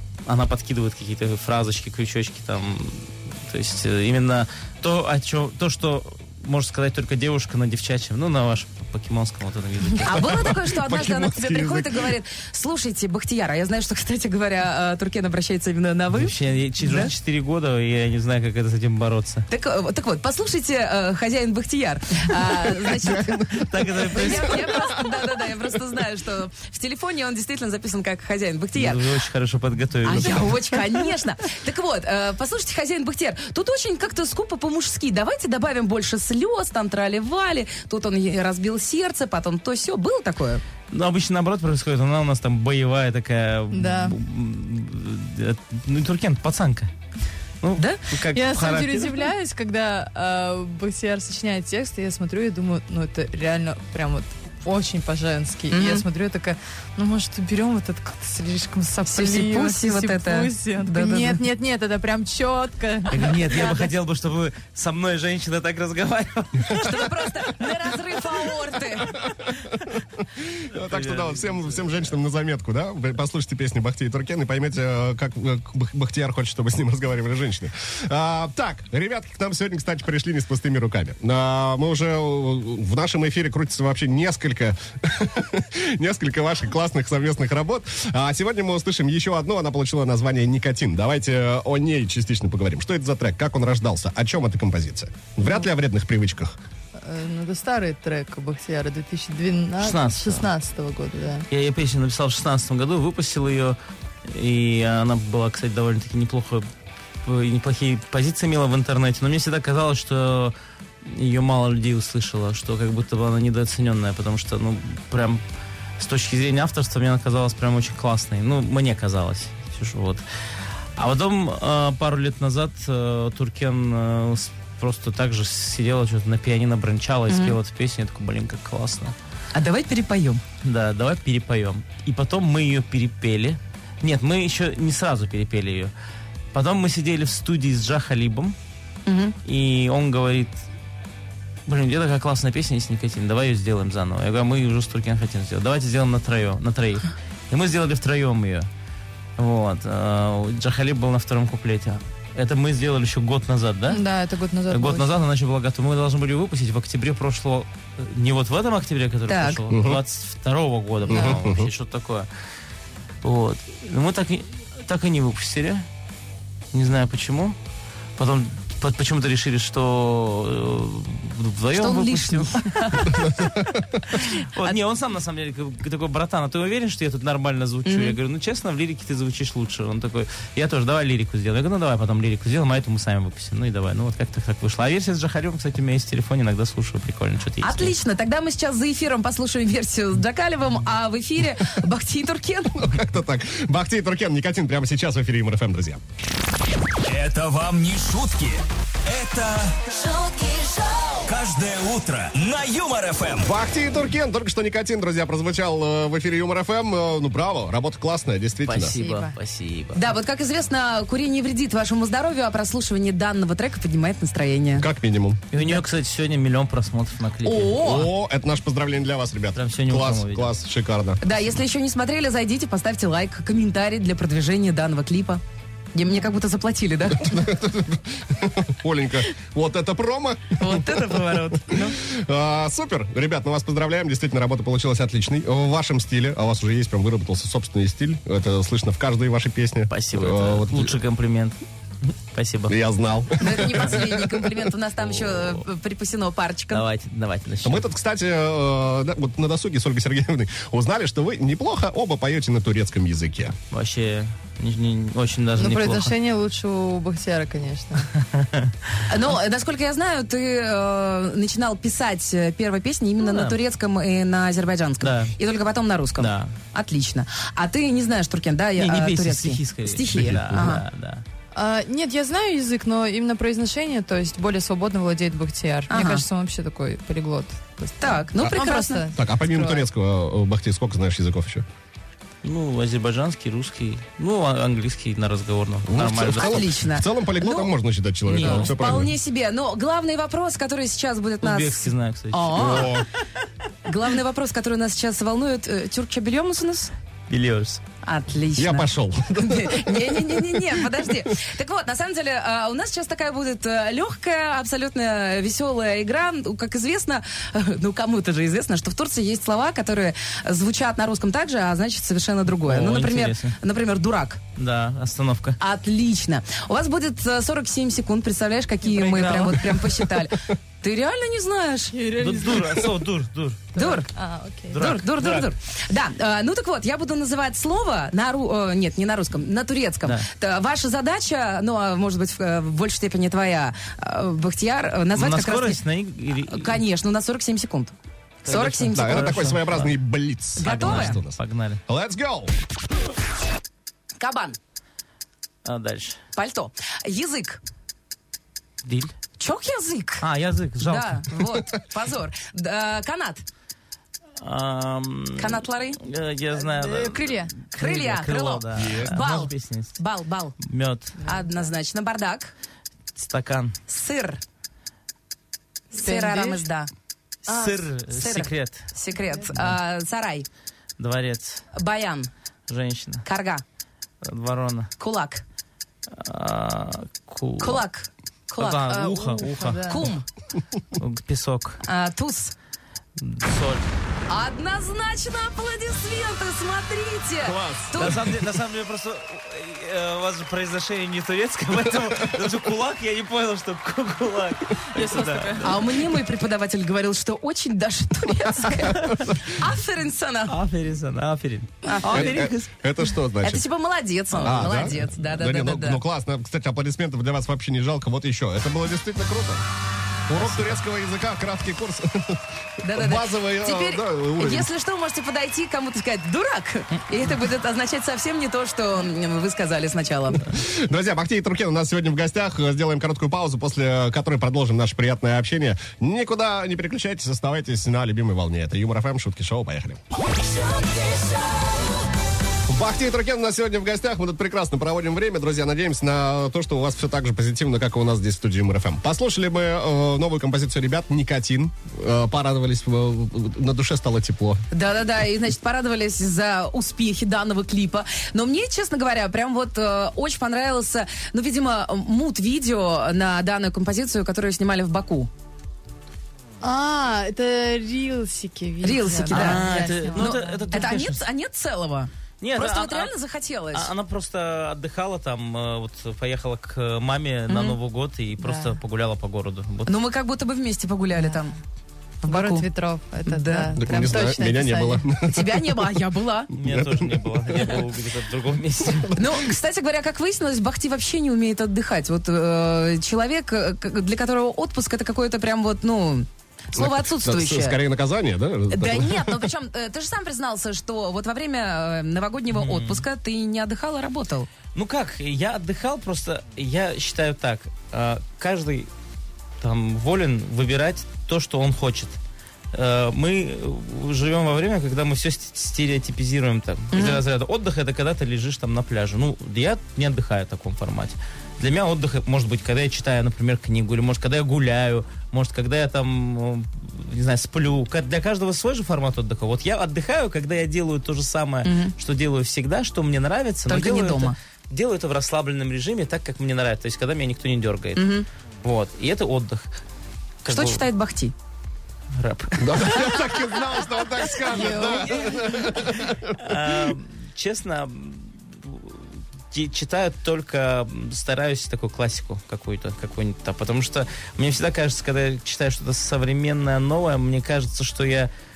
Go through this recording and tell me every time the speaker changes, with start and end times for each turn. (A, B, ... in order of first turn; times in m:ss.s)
0:00.3-0:10.6 A
0:10.0-0:17.1 B
0:10.5-0:12.2 C
0:16.1-0:19.5 A
0:19.5-0:29.1 B
0:23.2-0:23.7 C
0:23.5-0:25.0 A
0:28.8-0:30.8 A
0:30.0-0:40.6 B
0:40.9-0:46.9 A
0:43.7-0:44.2 D
0:47.6-0:49.2 A
0:47.8-0:48.1 B
0:48.3-1:03.9 D
0:55.7-0:56.0 B
0:59.1-1:01.4 B
1:03.1-1:07.3 A
1:06.7-1:09.2 B
1:10.4-1:36.6 C
1:10.7-1:12.1 A
1:37.0-1:41.5 D
1:39.8-1:40.5 A
1:41.5-1:46.7 A
1:47.2-1:55.4 A
1:56.0-2:00.2 A
2:01.0-2:09.2 A
2:07.3-2:07.6 B
2:09.5-2:10.4 B
2:10.6-2:15.9 A
2:16.5-2:18.6 A
2:19.1-2:19.4 B
2:19.4-2:20.6 A
2:21.7-2:28.7 A
2:29.4-2:34.0 A
2:33.9-2:35.1 D
2:34.7-2:42.3 A
2:39.3-2:39.7 B
2:39.7-2:40.0 C
2:41.1-2:41.7 C
2:41.1-2:41.4 D
2:43.2-2:45.9 A
2:46.7-2:47.6 A
2:48.2-2:53.4 A
2:51.7-2:53.5 B
2:54.1-3:07.9 A
2:57.8-2:58.2 B
3:07.6-3:12.8 B
3:12.7-3:16.0 C
3:17.0-3:19.9 E
3:20.2-3:21.0 B
3:21.2-3:23.5 E
3:23.4-3:29.0 C
3:28.6-3:30.1 A
3:29.0-3:29.4 D
3:29.9-3:34.9 B
3:34.8-3:35.4 C
3:35.5-3:37.8 A
3:35.5-3:35.8 B
3:37.4-3:38.1 B
3:37.8-3:41.2 C
3:39.6-3:40.5 A
3:41.2-3:45.4 B
3:45.9-3:47.5 B
3:47.1-3:51.0 C
3:50.6-3:51.9 A
3:50.6-3:51.9 B
3:51.7-4:01.0 C
3:59.9-4:01.6 A
4:02.3-4:02.8 A
4:02.7-4:04.7 C
4:03.4-4:06.9 B
4:05.0-4:05.6 A
4:06.7-4:07.8 A
4:07.6-4:13.6 C
4:13.7-4:16.2 A
4:15.6-4:18.1 D
4:18.2-4:18.7 A
4:19.1-4:30.8 B
4:23.2-4:23.6 A
4:25.0-4:25.4 A
4:26.2-4:26.6 A
4:28.8-4:31.2 A
4:30.2-4:30.6 C
4:31.5-4:39.8 D
4:35.9-4:36.2 B
4:38.0-4:39.1 B
4:39.1-4:41.6 C
4:42.4-4:46.7 A
4:45.9-4:49.1 C
4:46.3-4:47.7 B
4:48.3-4:53.0 B
4:48.3-4:48.7 A
4:51.4-4:53.0 A
4:52.6-4:53.1 C
4:53.9-4:56.9 B
4:57.3-4:57.8 A
4:58.0-5:14.4 B
4:58.6-5:01.0 C
5:12.6-5:13.6 A
5:14.6-5:15.6 A
5:15.6-5:21.9 B
5:18.8-5:19.6 D
5:19.2-5:19.6 A
5:21.9-5:23.0 D
5:22.2-5:23.7 A
5:23.7-5:24.8 D
5:23.8-5:24.1 B
5:24.7-5:25.5 A
5:24.8-5:35.8 B
5:35.2-5:36.8 A
5:36.5-5:39.5 B
5:38.4-5:40.0 A
5:38.9-5:42.5 C
5:40.6-5:41.2 B
5:40.6-5:41.8 A
5:44.2-5:44.6 B
5:45.6-5:46.2 A
5:46.4-5:47.6 B
5:48.8-5:49.2 A
5:49.4-5:50.2 B
5:50.2-5:51.4 A
5:50.8-5:53.4 B
5:54.4-6:00.0 A
5:55.4-5:56.0 B
5:56.5-5:57.5 D
5:57.8-6:00.6 B
5:58.8-5:59.1 C
6:00.6-6:01.2 A
6:01.2-6:01.6 D
6:01.2-6:02.5 B
6:03.2-6:03.8 A
6:03.9-6:04.4 B
6:05.9-6:06.7 D
6:05.9-6:06.9 B
6:07.5-6:08.9 A
6:07.5-6:07.8 D
6:08.1-6:10.5 B
6:09.3-6:09.6 D
6:11.0-6:11.6 A
6:11.7-6:12.3 B
6:12.7-6:13.3 A
6:13.2-6:13.6 B
6:14.2-6:14.9 A
6:15.0-6:15.4 B
6:16.1-6:17.8 A
6:17.6-6:20.2 B
6:18.6-6:20.1 A
6:19.4-6:20.1 D
6:21.0-6:21.8 A
6:21.8-6:22.6 B
6:23.2-6:23.9 A
6:24.3-6:28.2 B
6:27.4-6:28.3 C
6:28.0-6:36.0 A
6:34.9-6:35.8 D
6:35.6-6:40.6 B
6:38.9-6:39.3 A
6:40.5-6:42.7 A
6:41.8-6:42.4 B
6:42.1-6:43.6 C
6:43.4-6:46.0 B
6:44.4-6:49.7 C
6:50.3-6:54.7 C
6:52.8-7:00.4 B
7:00.5-7:10.0 C
7:12.7-7:24.6 C
7:24.7-7:35.3 B
7:36.6-7:40.9 D
7:38.8-7:43.9 B
7:39.3-7:41.2 A
7:42.4-7:43.1 A
7:43.7-7:49.9 A
7:47.5-7:47.8 B
7:48.4-7:48.8 D
7:49.9-7:51.6 B
7:52.2-7:52.7 B
7:52.2-7:55.0 D
7:53.2-7:53.8 B
7:53.8-7:55.8 C
7:55.3-7:56.5 B
7:56.6-7:59.2 A
7:56.7-7:57.0 C
7:59.2-8:07.8 B
8:06.8-8:09.5 C
8:08.7-8:14.5 B
8:12.5-8:13.0 A
8:14.7-8:18.9 A
8:19.6-8:22.2 A
8:22.7-8:48.1 A
8:26.9-8:27.2 B
8:41.6-8:41.9 B
8:43.7-8:44.4 B
8:48.0-8:48.3 B
8:48.6-8:49.7 A
8:50.4-8:50.8 A
8:50.5-8:51.3 B
8:52.2-8:53.3 A
8:52.6-8:56.9 C
8:54.3-9:08.3 A